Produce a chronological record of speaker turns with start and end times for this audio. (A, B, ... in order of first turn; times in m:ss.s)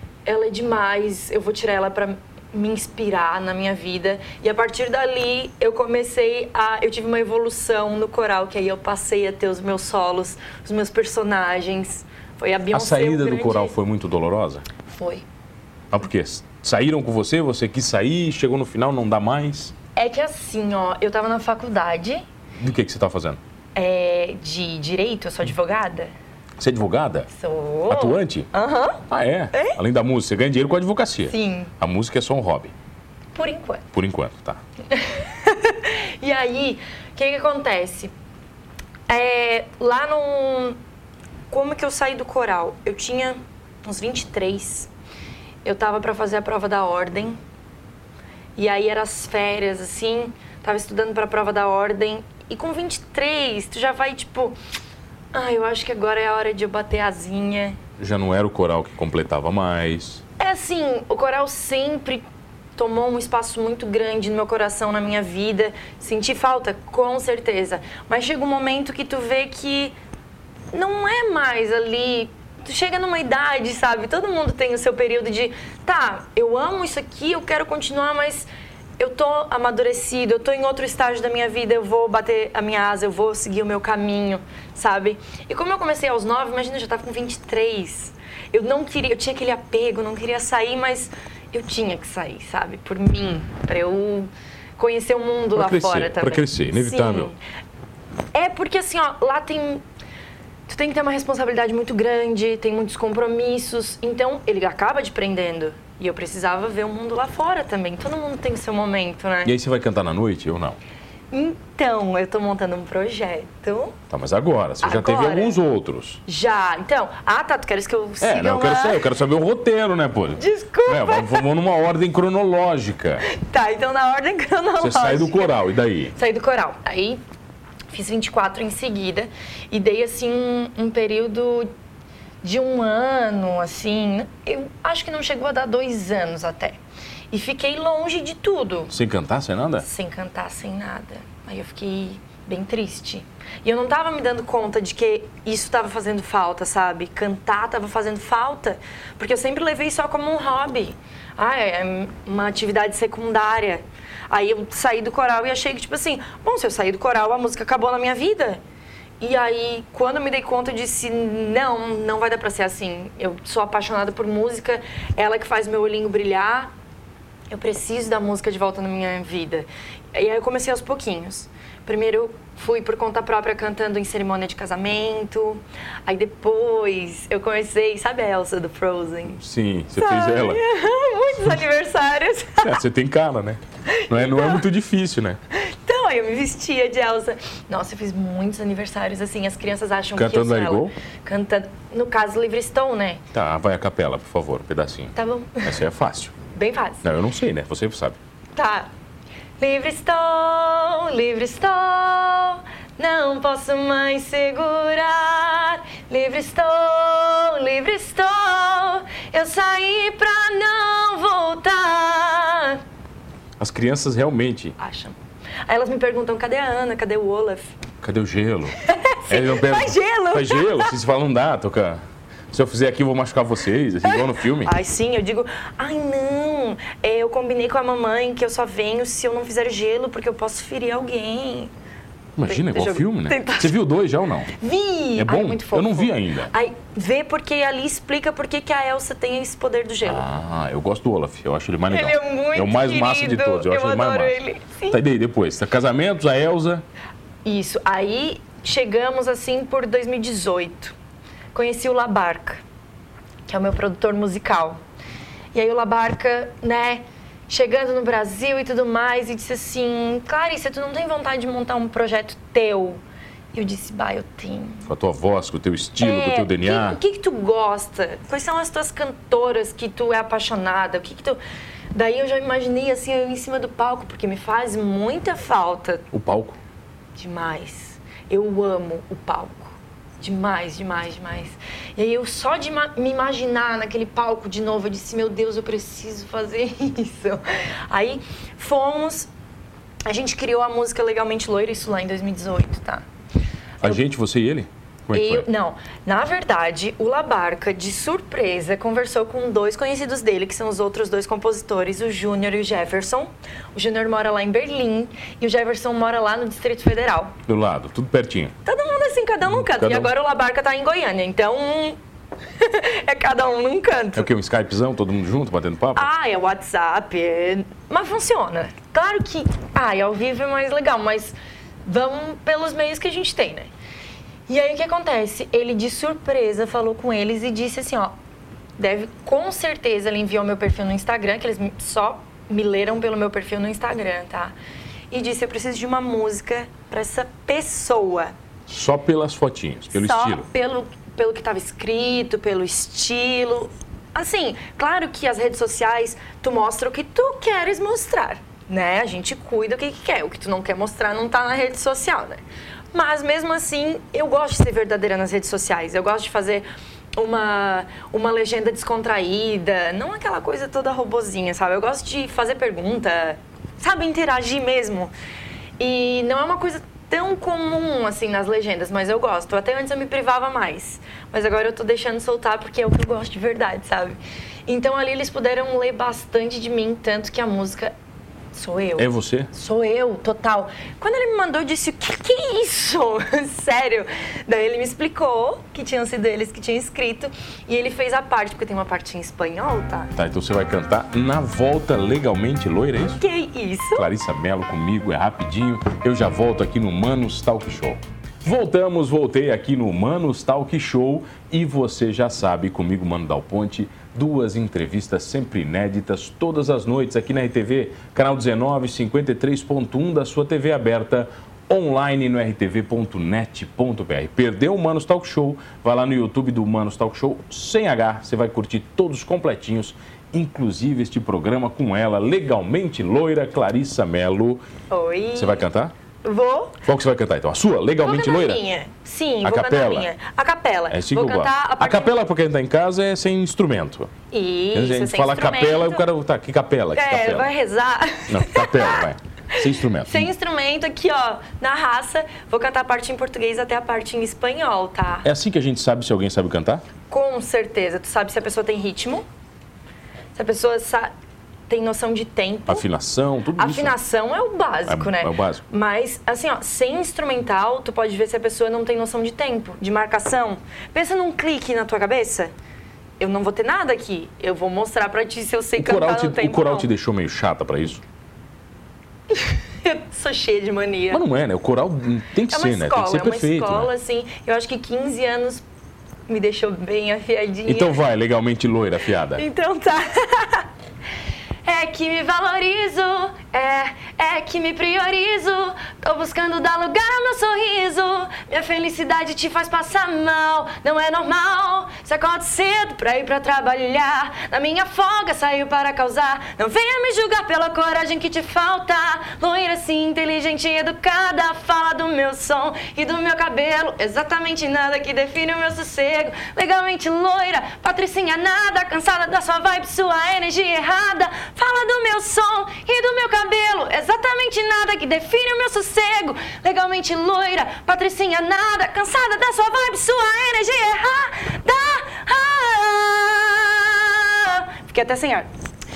0:00.3-0:13.8 A
0:12.7-0:14.7 B
0:14.9-0:15.2 A
0:15.9-0:19.7 B
0:20.0-0:22.2 A
0:22.6-0:23.4 B
0:23.8-0:26.1 A
0:26.6-0:27.3 B
0:27.3-0:29.8 A
0:27.9-0:28.5 B
0:29.1-0:32.7 B
0:31.3-0:31.7 A
0:33.4-0:33.9 A
0:33.9-0:34.6 B
0:34.9-0:38.1 A
0:39.1-0:40.8 A
0:41.5-0:44.9 A
0:45.6-0:47.4 A
0:48.6-0:54.6 A
0:55.3-0:57.8 A
0:58.0-1:00.2 B
1:00.4-1:02.2 A
1:02.8-1:10.0 A
1:10.7-1:37.4 A
1:35.6-1:37.3 B
1:38.3-1:39.8 A
1:40.7-1:49.5 A
1:49.4-1:50.8 B
1:51.3-1:54.0 A
1:54.1-1:56.2 B
1:54.8-1:55.6 A
1:56.3-1:59.1 A
1:58.2-2:03.2 B
2:00.4-2:01.4 A
2:03.3-2:05.6 A
2:04.8-2:06.1 B
2:06.2-2:07.2 A
2:07.9-2:11.7 A
2:12.4-2:16.8 A
2:17.3-2:18.9 A
2:18.9-2:19.9 B
2:19.8-2:38.6 A
2:39.2-2:46.7 A
2:47.5-2:59.4 A
2:59.4-3:00.6 B
3:00.0-3:02.8 A
3:02.6-3:05.4 B
3:03.9-3:04.6 A
3:05.5-3:13.2 A
3:10.2-3:11.0 B
3:13.3-3:16.4 B
3:15.2-3:15.7 A
3:16.6-3:17.1 A
3:17.0-3:18.2 B
3:18.6-3:18.9 A
3:19.6-3:32.8 A
3:33.6-3:34.8 B
3:34.8-3:35.2 A
3:35.7-3:37.7 A
3:38.0-3:38.8 B
3:38.8-3:41.0 A
3:39.3-3:42.0 B
3:42.5-3:44.7 B
3:44.0-3:51.7 A
3:52.4-3:54.5 B
3:52.4-3:53.8 A
3:54.6-4:00.3 A
3:55.2-3:56.5 B
4:00.0-4:04.4 B
4:01.9-4:05.0 A
4:04.9-4:06.8 B
4:07.4-4:11.0 A
4:11.5-4:12.6 A
4:13.5-4:14.8 A
4:15.5-4:23.0 A
4:23.5-4:24.9 A
4:24.9-4:27.0 B
4:26.0-4:31.4 A
4:31.9-4:36.1 A
4:36.1-4:36.6 B
4:37.2-4:49.3 A
4:50.0-4:53.0 A
4:53.8-4:55.5 B
4:55.1-5:07.4 A
5:07.5-5:08.5 B
5:08.6-5:12.0 A
5:09.5-5:10.1 B
5:12.6-5:14.3 A
5:14.2-5:16.1 B
5:16.0-5:23.7 A
5:24.5-5:28.1 A
5:28.8-5:34.6 A
5:35.1-5:38.3 A
5:38.7-5:40.5 B
5:39.9-5:52.4 A
5:52.9-6:05.1 A
6:05.8-6:17.9 A
6:18.5-6:30.1 A
6:19.0-6:19.5 B
6:30.2-6:33.2 B
6:33.0-6:34.1 A
6:34.0-7:04.6 B
7:04.9-7:05.6 A
7:05.4-7:05.9 B
7:06.2-7:06.8 A
7:06.8-7:08.6 B
7:08.0-7:12.2 A
7:09.4-7:10.1 B
7:10.9-7:14.1 B
7:14.3-7:16.1 A
7:14.7-7:17.5 B
7:16.9-7:19.0 A
7:18.3-7:20.3 B
7:20.0-7:25.3 A
7:25.2-7:26.8 B
7:27.1-7:29.2 A
7:30.4-7:31.1 A
7:31.7-7:32.9 A
7:32.7-7:34.0 B
7:33.6-7:42.5 A
7:34.9-7:35.6 B
7:43.2-7:46.9 A
7:45.8-7:48.0 B
7:49.3-7:51.2 A
7:51.1-7:53.9 B
7:52.5-7:55.6 A
7:56.3-7:58.0 A
7:57.7-7:59.4 B
7:59.4-8:00.7 A
8:01.6-8:45.5 A